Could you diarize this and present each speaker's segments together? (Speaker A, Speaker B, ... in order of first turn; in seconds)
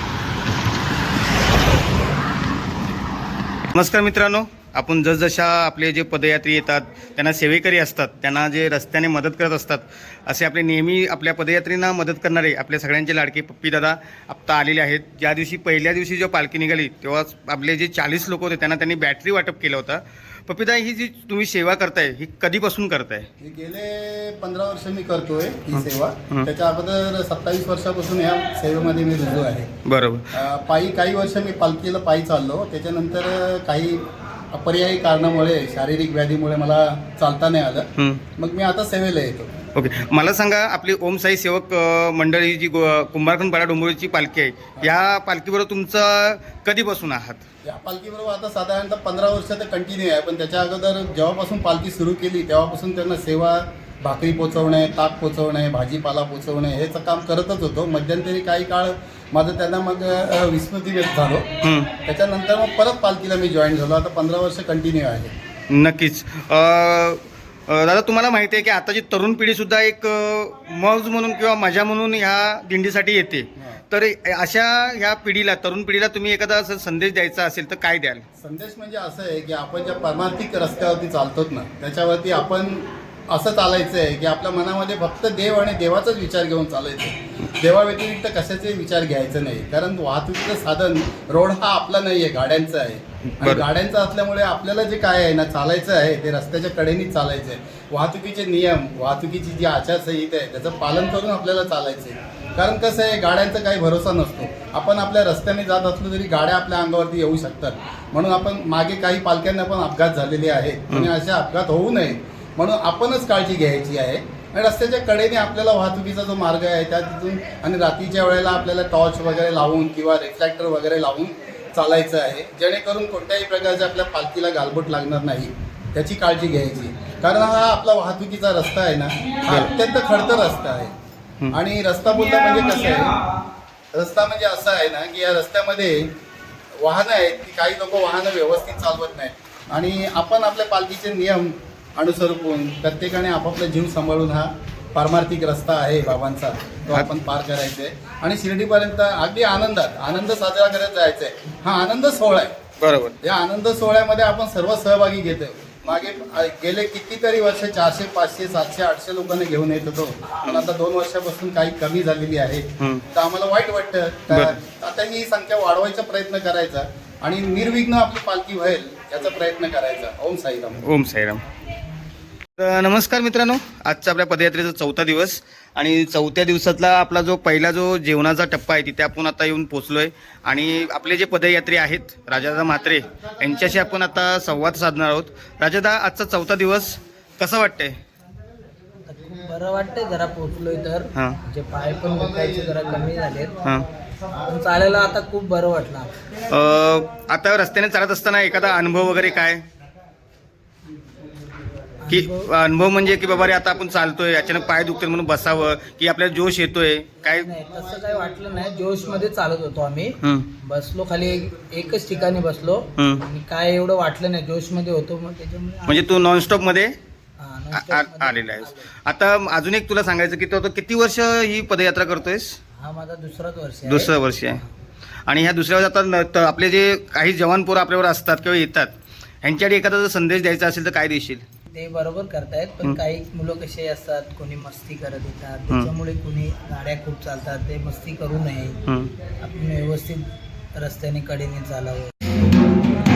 Speaker A: 3.7-23.3, 25.7-26.5, 29.9-30.3, 38.0-38.2, 39.8-47.4, 61.6-61.9, 65.7-78.2, 93.3-93.6, 129.5-129.7, 152.8-153.2, 160.4-160.7, 162.8-163.0, 164.3-164.6, 170.8-171.4, 172.6-187.9, 196.5-199.6, 202.1-207.5, 210.2-210.5, 213.0-213.2, 215.9-216.9, 217.7-222.6, 223.9-224.6, 225.3-228.9, 229.4-231.4, 238.8-239.1
Speaker B: 23.4-29.7, 30.3-39.5, 47.6-61.5, 62.0-65.3, 78.4-130.9, 131.5-133.2, 133.9-136.0, 136.8-152.5, 153.2-170.8
Speaker C: 189.1-193.6, 194.4-196.1, 202.0-202.5, 207.4-216.3, 217.4-218.9, 222.8-224.1, 231.7-240.2, 240.8-242.1